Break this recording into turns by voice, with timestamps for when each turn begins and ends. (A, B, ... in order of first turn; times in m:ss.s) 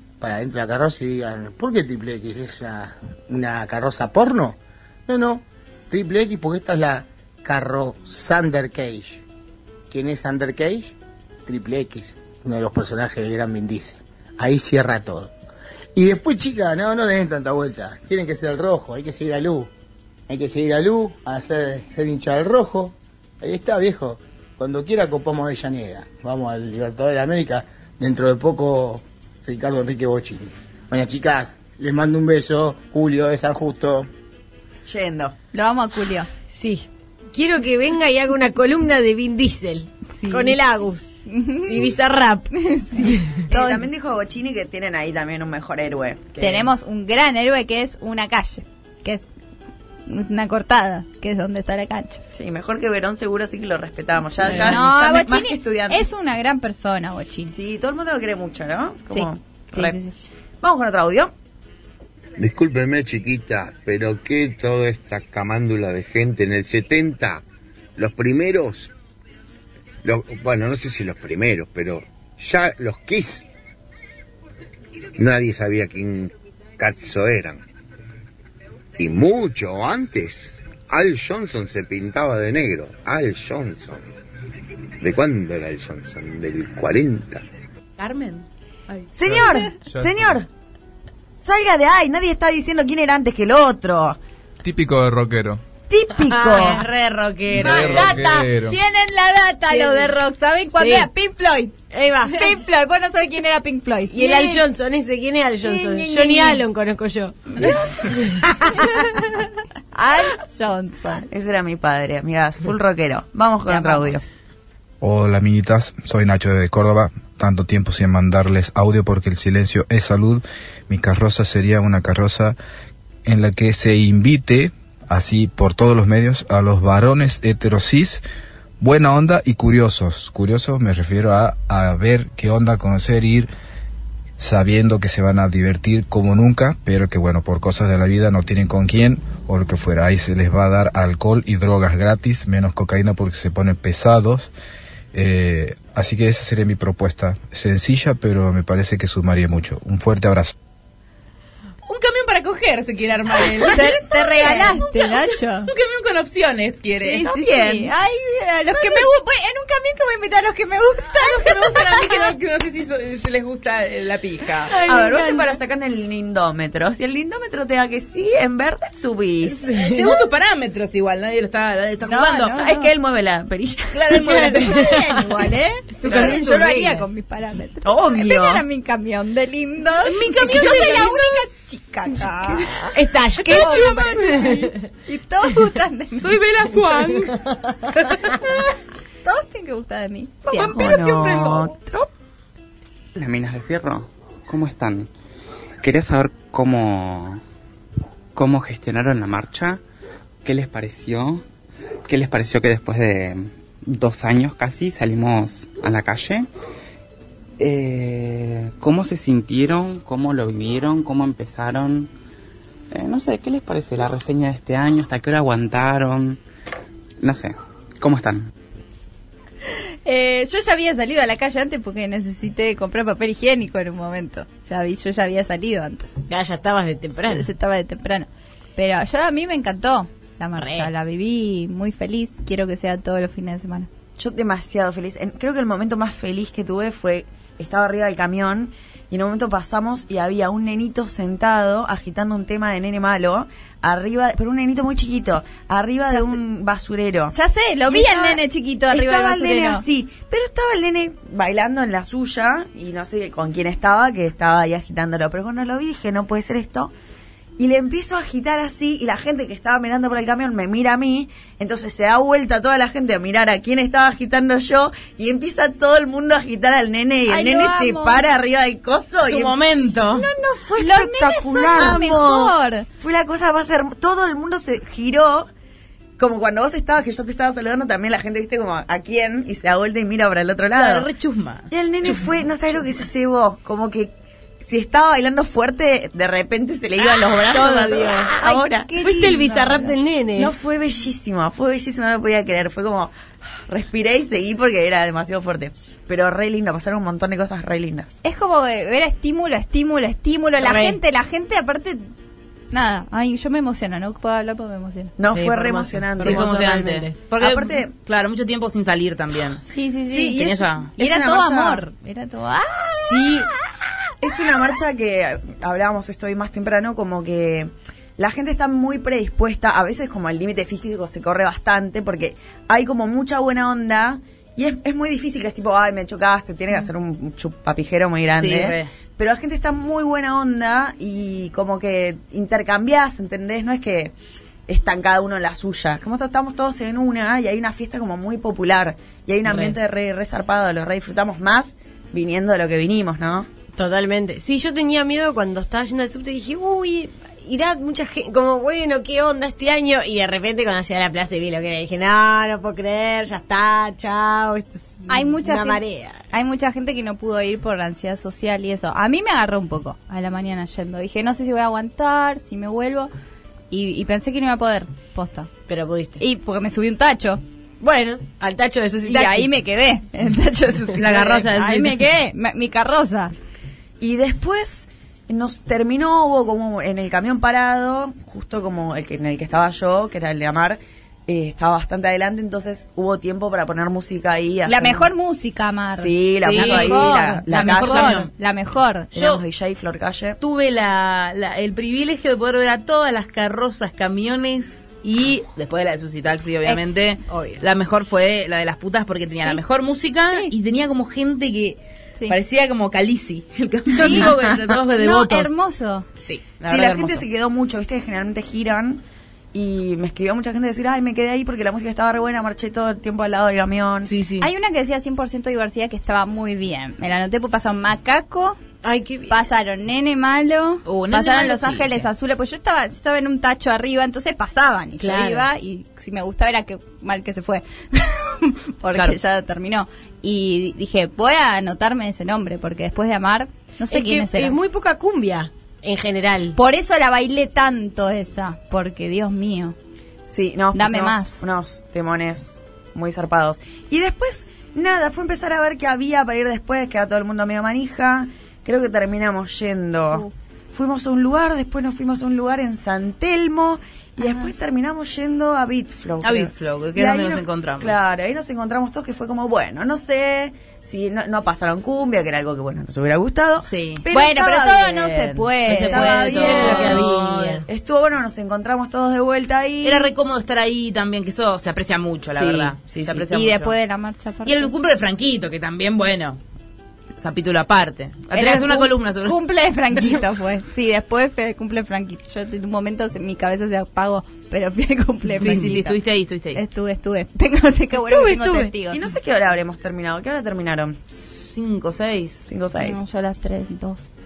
0:00.2-0:09.2 A
0:09.9-0:10.9 A
0:11.4-0:15.3 A
0:16.0-0:19.7 A
0:20.3-0:34.1 A
0:34.8-0:35.3 B
0:35.5-0:36.3 C
0:36.5-0:42.5 D
0:40.2-0:40.6 C
0:41.3-0:41.9 C
0:42.5-0:43.8 C
0:43.5-0:46.7 B
0:46.4-0:49.2 C
0:50.1-0:52.2 C
0:52.3-0:56.1 B
0:54.4-0:57.5 C
0:57.5-1:00.0 B
0:59.1-1:00.1 C
1:00.6-1:01.3 B
1:02.4-1:07.4 E
1:08.0-1:08.9 E
1:10.0-1:13.4 E
1:15.2-1:17.6 E
1:19.0-1:24.1 E
1:25.0-1:27.4 E
1:28.0-1:29.1 F
1:29.1-1:30.4 B
1:29.2-1:30.4 G
1:31.4-1:34.2 B
1:34.6-1:35.6 G
1:35.9-1:36.9 B
1:36.3-1:36.8 D
1:36.5-1:38.1 F
1:37.5-1:38.8 G
1:37.6-1:44.6 C
1:39.7-1:40.1 D
1:40.7-1:41.1 D
1:41.9-1:42.4 D
1:44.1-1:48.3 D
1:45.6-1:46.6 C
1:47.6-1:47.9 C
1:48.9-1:51.2 C
1:51.3-1:54.2 B
1:53.7-1:54.1 C
1:55.0-2:02.6 H
2:03.2-2:08.2 H
2:08.8-2:13.5 H
2:14.4-2:24.5 H
2:25.1-2:30.5 H
2:31.8-2:34.7 F
2:33.6-2:35.7 C
2:34.4-2:34.7 B
2:35.6-2:37.2 F
2:37.0-2:42.3 C
2:37.2-2:37.9 B
2:41.2-2:44.7 F
2:44.7-2:45.6 D
2:44.8-2:49.7 B
2:49.5-2:50.2 D
2:49.7-2:52.6 F
2:52.0-2:52.9 C
2:52.5-2:54.1 B
2:53.9-2:54.9 F
2:54.2-2:55.4 D
2:54.5-3:02.9 C
2:55.9-2:57.1 D
2:56.0-2:56.5 F
2:57.8-2:58.6 B
3:00.0-3:01.4 F
3:00.6-3:00.9 D
3:02.9-3:04.8 D
3:03.4-3:06.4 C
3:03.6-3:04.5 F
3:06.2-3:07.4 F
3:07.3-3:07.7 D
3:08.2-3:11.7 C
3:10.5-3:12.1 B
3:13.2-3:15.1 I
3:15.8-3:17.4 I
3:18.3-3:19.8 I
3:20.4-3:21.4 I
3:22.0-3:26.5 I
3:27.6-3:32.1 I
3:32.9-3:36.4 I
3:37.2-3:38.5 I
3:40.0-3:46.2 C
3:46.3-3:47.5 D
3:47.3-3:53.9 C
3:50.6-3:50.9 D
3:54.2-4:07.3 B
4:07.3-4:09.8 C
4:07.9-4:16.9 B
4:17.6-4:35.5 B
4:27.3-4:28.2 C
4:29.2-4:30.3 F
4:30.1-4:32.8 C
4:36.2-4:41.1 B
4:40.7-4:42.2 F
4:41.7-4:44.1 B
4:44.6-4:49.2 B
4:47.4-4:48.3 D
4:48.4-4:49.9 C
4:49.0-4:50.5 D
4:50.4-4:53.1 B
4:53.6-4:58.1 B
4:58.2-5:02.1 C
5:00.6-5:01.0 D
5:02.7-5:05.1 C
5:05.2-5:07.9 B
5:05.3-5:07.2 D
5:06.2-5:09.6 F
5:09.7-5:11.8 B
5:10.1-5:13.4 C
5:10.3-5:10.9 F
5:13.0-5:13.5 B
5:14.2-5:34.1 B
5:28.4-5:28.9 F
5:34.7-5:43.5 B
5:39.5-5:39.7 D
5:43.7-5:56.3 D
5:55.1-6:03.1 C
6:03.7-6:05.5 C
6:05.7-6:06.2 D
6:06.2-6:07.4 C
6:07.8-6:09.5 D
6:09.0-6:13.3 C
6:11.0-6:12.0 F
6:14.0-6:25.1 B
6:24.6-6:29.1 C
6:25.9-6:28.3 B
6:26.4-6:28.3 F
6:29.1-6:29.4 F
6:29.1-6:30.4 B
6:30.4-6:45.5 F
6:37.3-6:37.6 D
6:43.8-6:44.6 B
6:43.9-6:44.4 C
6:45.0-6:46.1 C
6:46.2-6:47.2 F
6:46.6-6:54.1 B
6:54.0-6:54.5 F
6:54.4-6:58.6 C
6:58.8-6:59.4 D
6:59.3-7:14.6 C
7:00.8-7:02.0 F
7:05.0-7:05.5 D
7:13.9-7:16.6 D
7:16.5-7:19.8 C
7:20.3-7:47.1 B
7:20.7-7:21.4 C
7:36.2-7:38.0 F
7:43.6-7:44.0 F
7:44.1-7:47.1 C
7:45.6-7:47.6 F
7:46.0-7:47.6 D
7:47.6-7:50.1 B
7:49.8-7:53.7 F
7:52.3-7:53.3 B
7:53.2-7:54.7 C
7:54.4-7:56.4 F
7:57.2-7:59.4 F
7:58.3-8:06.0 C
8:05.4-8:06.6 F
8:06.5-8:09.0 C
8:08.0-8:08.7 D
8:08.9-8:11.0 B
8:11.1-8:12.4 F
8:12.4-8:13.1 B
8:12.8-8:14.0 C